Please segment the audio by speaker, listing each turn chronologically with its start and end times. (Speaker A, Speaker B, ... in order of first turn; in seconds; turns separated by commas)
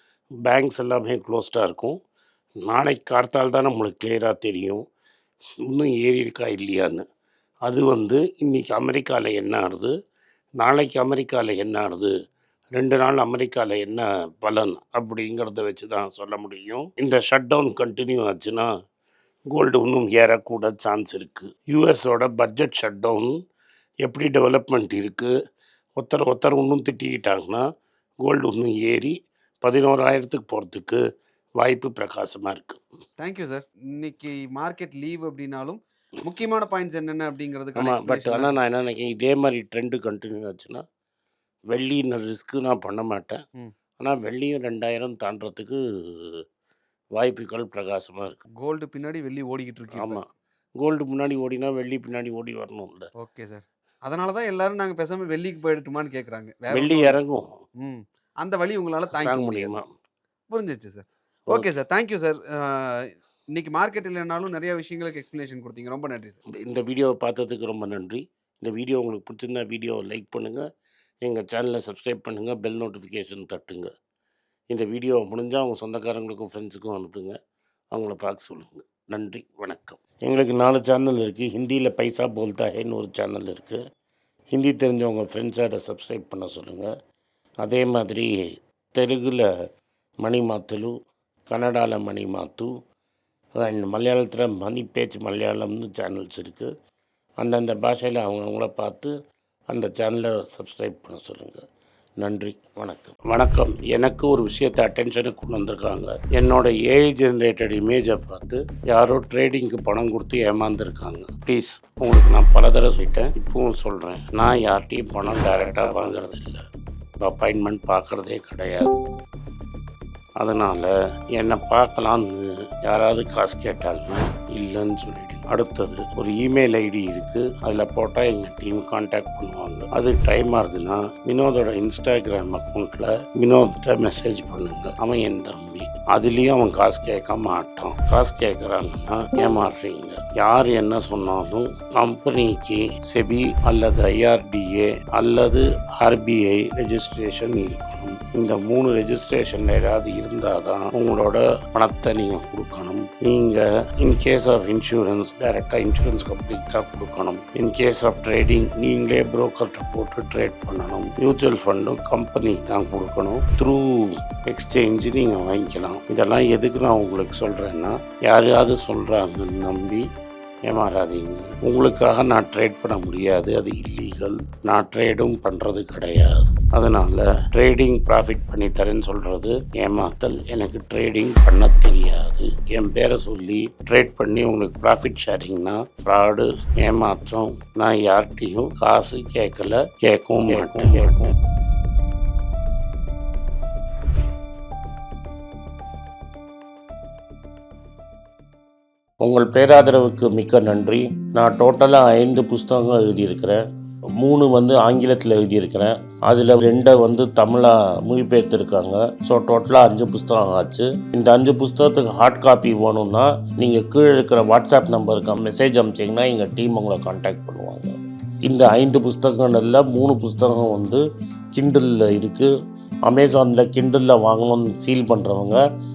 Speaker A: 0.4-2.0, Speaker A: 2.6-4.8, Speaker A: 5.6-7.0, Speaker A: 7.7-9.9, Speaker A: 10.6-12.1, Speaker A: 12.7-18.7, Speaker A: 19.5-23.4, Speaker A: 24.0-25.3, Speaker A: 26.0-27.6, Speaker A: 28.2-31.0, Speaker A: 31.6-32.8, Speaker B: 33.2-38.6, Speaker A: 37.8-40.8, Speaker A: 41.7-43.4, Speaker A: 44.0-46.4, Speaker A: 47.2-48.4, Speaker B: 48.6-50.2, Speaker A: 49.9-50.2, Speaker A: 50.8-53.1, Speaker B: 53.2-57.2, Speaker A: 56.7-57.5, Speaker B: 57.8-59.7, Speaker A: 59.2-59.9, Speaker B: 60.5-66.4, Speaker A: 66.5-70.7, Speaker A: 71.2-73.9, Speaker A: 74.7-77.4, Speaker A: 77.9-83.8, Speaker A: 84.5-86.9, Speaker A: 87.6-88.3, Speaker A: 88.9-89.5, Speaker A: 90.2-90.9, Speaker A: 91.5-92.7, Speaker A: 93.5-96.7, Speaker A: 97.4-99.1, Speaker A: 99.7-101.6, Speaker A: 102.2-116.6, Speaker A: 117.2-118.9, Speaker A: 120.4-170.1, Speaker A: 170.7-191.3, Speaker A: 199.2-203.7, Speaker A: 204.2-221.0, Speaker A: 221.6-222.5, Speaker A: 223.1-225.6